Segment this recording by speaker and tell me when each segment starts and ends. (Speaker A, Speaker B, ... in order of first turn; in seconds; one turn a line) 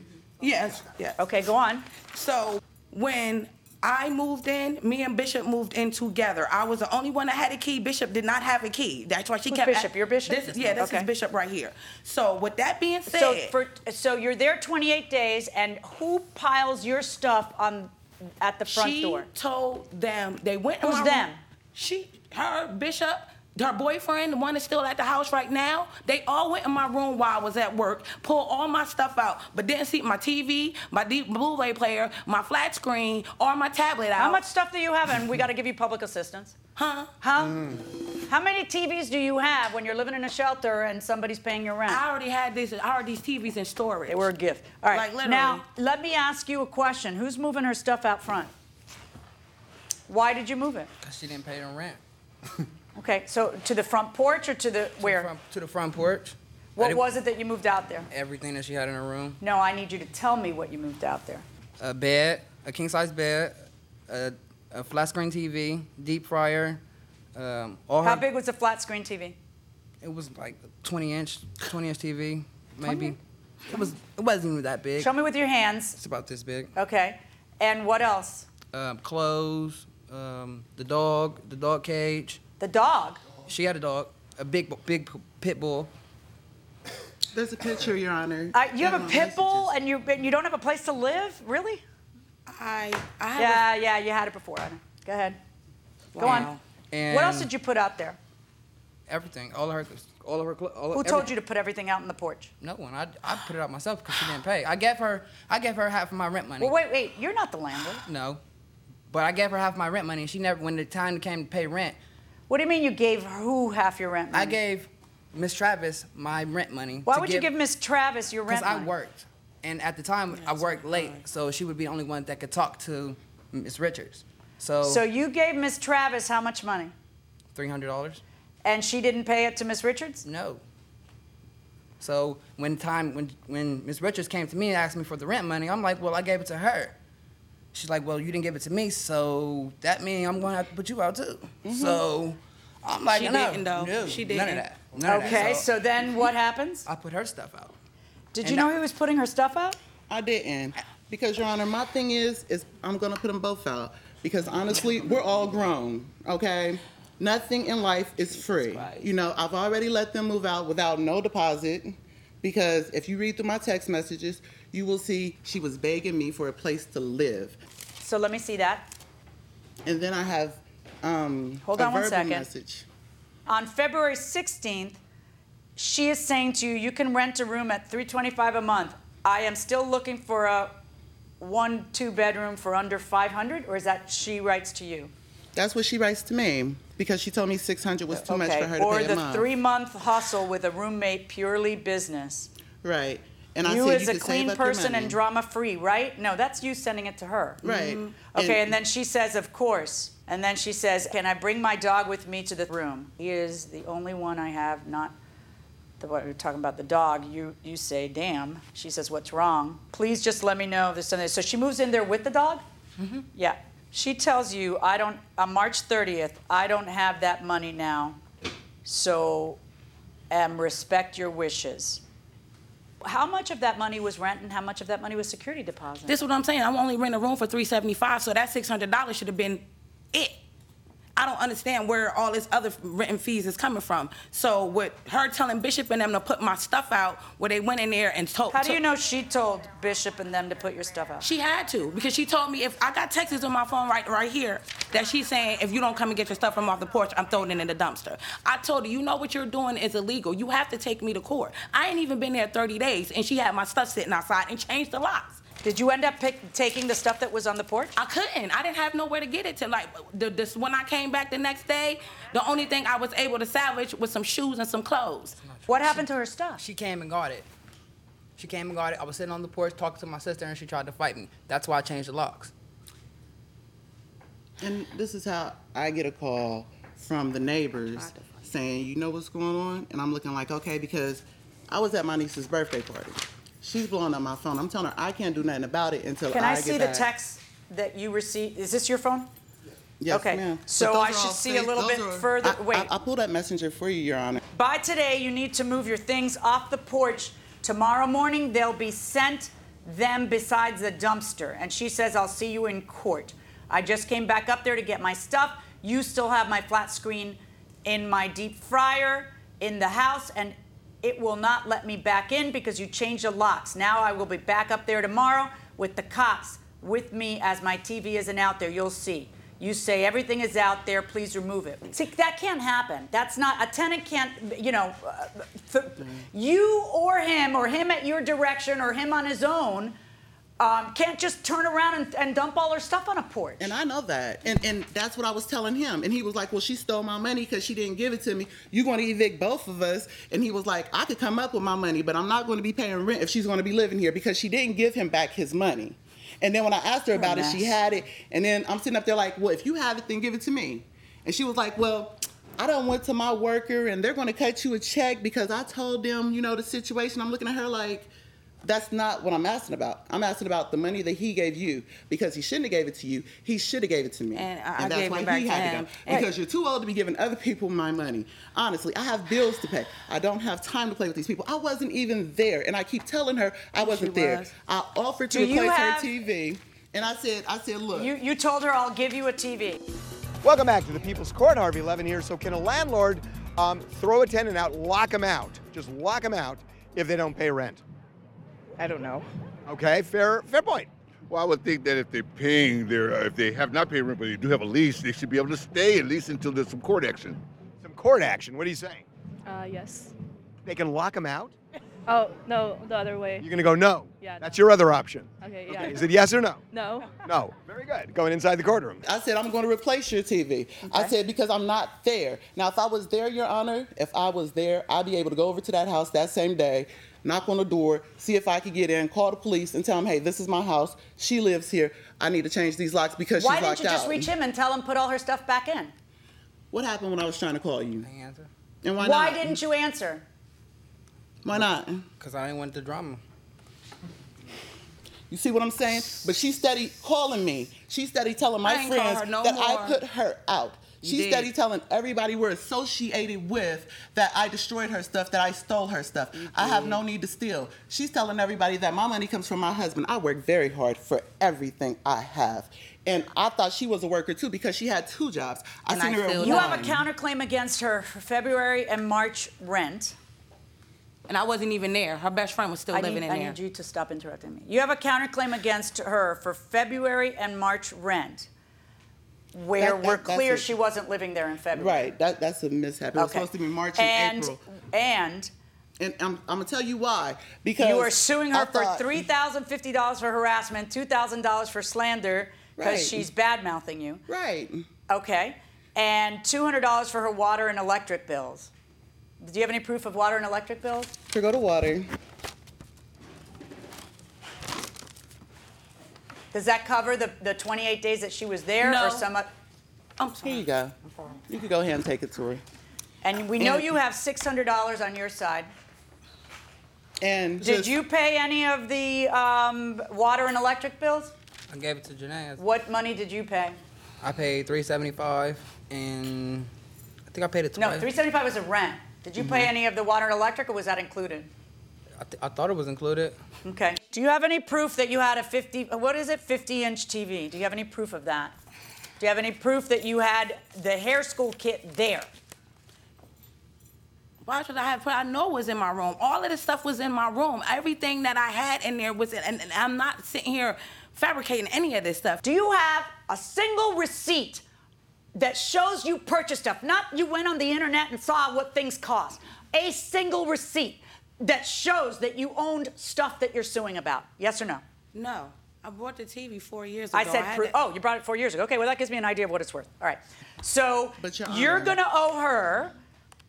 Speaker A: 0.4-1.2
Speaker B: 1.2-1.9
Speaker A: 2.1-13.5
Speaker B: 9.5-11.1
Speaker C: 10.5-10.9
Speaker B: 13.1-19.3
Speaker A: 18.7-34.4
Speaker B: 20.8-21.4
Speaker B: 34.2-36.6
Speaker A: 36.8-37.1
Speaker B: 37.2-42.0
Speaker A: 41.9-44.3
Speaker B: 44.1-48.5
Speaker A: 44.9-45.6
Speaker B: 50.1-50.9
Speaker C: 51.0-52.0
Speaker B: 53.0-55.3
Speaker C: 55.0-57.0
Speaker B: 56.8-58.1
Speaker C: 58.1-59.4
Speaker B: 59.4-61.5
Speaker C: 61.8-66.8
Speaker C: 67.3-68.3
Speaker B: 68.0-69.4
Speaker C: 70.0-75.1
Speaker B: 72.8-73.2
Speaker B: 75.0-76.0
Speaker C: 76.0-76.7
Speaker B: 76.8-78.5
Speaker C: 78.7-82.4
Speaker B: 82.6-83.2
Speaker C: 83.5-85.9
Speaker D: 87.3-89.7
Speaker B: 88.5-91.8
Speaker A: 92.5-93.7
Speaker B: 93.4-95.4
Speaker A: 96.2-96.6
Speaker B: 96.2-96.5
Speaker C: 96.2-97.5
Speaker B: 97.1-98.2
Speaker C: 99.1-101.3
Speaker B: 100.9-102.5
Speaker C: 102.6-106.8
Speaker B: 106.6-108.1
Speaker C: 108.1-108.4
Speaker C: 109.1-112.0
Speaker B: 112.5-114.6
Speaker C: 114.3-117.5
Speaker B: 117.1-118.9
Speaker C: 118.5-125.0
Speaker A: 120.3-121.2
Speaker B: 124.8-126.9
Speaker C: 127.5-128.2
Speaker B: 128.6-130.2
Speaker C: 130.2-130.6
Speaker C: 132.0-136.9
Speaker C: 137.7-146.3
Speaker D: 141.7-142.0
Speaker A: 143.0-144.7
Speaker B: 145.1-146.9
Speaker C: 146.9-147.8
Speaker B: 148.3-149.8
Speaker D: 150.1-167.6
Speaker A: 158.3-159.1
Speaker B: 168.0-168.9
Speaker D: 169.9-172.9
Speaker B: 171.7-172.5
Speaker B: 173.5-175.0
Speaker B: 175.8-180.8
Speaker B: 181.4-185.1
Speaker D: 185.6-189.5
Speaker B: 188.2-192.5
Speaker D: 192.8-195.2
Speaker B: 193.6-197.6
Speaker D: 197.6-198.7
Speaker A: 197.7-198.1
Speaker B: 198.3-205.2
Speaker B: 206.0-212.6
Speaker B: 213.3-218.2
Speaker B: 218.8-219.6
Speaker B: 220.3-222.0
Speaker B: 223.0-226.2
Speaker A: 226.1-230.4
Speaker A: 231.2-238.8
Speaker B: 238.5-241.3
Speaker A: 241.2-255.4
Speaker B: 255.6-257.9
Speaker A: 258.0-265.4
Speaker C: 265.4-267.5
Speaker B: 265.7-266.6
Speaker C: 268.4-272.5
Speaker D: 274.6-287.1
Speaker A: 278.0-278.3
Speaker B: 286.3-289.3
Speaker D: 290.0-294.4
Speaker B: 290.1-292.9
Speaker B: 294.5-330.0
Speaker B: 330.6-333.7
Speaker D: 333.6-358.1
Speaker B: 347.1-347.8
Speaker D: 358.6-378.1
Speaker A: 364.4-366.2
Speaker A: 373.8-374.5
Speaker B: 375.3-376.1
Speaker B: 377.9-379.8
Speaker E: 380.4-387.8
Speaker A: 388.8-389.2
Speaker E: 389.7-390.9
Speaker F: 391.3-397.4
Speaker E: 397.8-399.1
Speaker G: 399.5-400.1
Speaker E: 400.6-401.5
Speaker G: 402.1-403.5
Speaker E: 403.4-406.6
Speaker G: 404.2-404.6
Speaker G: 405.4-407.3
Speaker E: 407.2-409.1
Speaker D: 409.1-424.3
Speaker B: 410.9-411.1
Speaker B: 423.4-425.9
Speaker D: 426.7-428.1
Speaker C: 428.0-428.5
Speaker D: 428.8-429.6
Speaker B: 429.0-430.2
Speaker D: 431.4-432.1
Speaker C: 432.2-433.2
Speaker D: 435.3-457.1
Speaker A: 438.6-440.0
Speaker A: 441.0-441.5
Speaker A: 446.3-447.0
Speaker A: 455.9-456.8
Speaker B: 456.4-460.2
Speaker A: 461.3-463.6
Speaker B: 462.9-468.5
Speaker B: 469.5-472.1
Speaker D: 469.8-470.7
Speaker D: 471.7-474.6
Speaker B: 473.2-475.5
Speaker D: 476.0-479.3
Speaker B: 477.8-484.2
Speaker D: 482.8-483.3
Speaker D: 484.3-484.9
Speaker B: 485.1-488.7
Speaker B: 489.4-491.2
Speaker D: 491.3-492.1
Speaker B: 496.5-499.5
Speaker A: 498.8-499.3
Speaker A: 500.2-500.6
Speaker D: 500.4-501.0
Speaker D: 501.5-502.6
Speaker B: 503.2-505.7
Speaker D: 503.6-503.9
Speaker D: 507.2-507.9
Speaker B: 507.6-511.3
Speaker C: 511.7-512.6
Speaker B: 512.6-513.8
Speaker C: 514.2-516.7
Speaker C: 517.3-518.1
Speaker B: 517.8-521.5
Speaker C: 522.2-523.4
Speaker B: 523.6-528.5
Speaker B: 529.2-532.3
Speaker A: 534.4-542.4
Speaker B: 542.4-544.6
Speaker B: 545.4-554.8
Speaker A: 555.1-557.8
Speaker B: 557.1-562.9
Speaker D: 561.2-562.0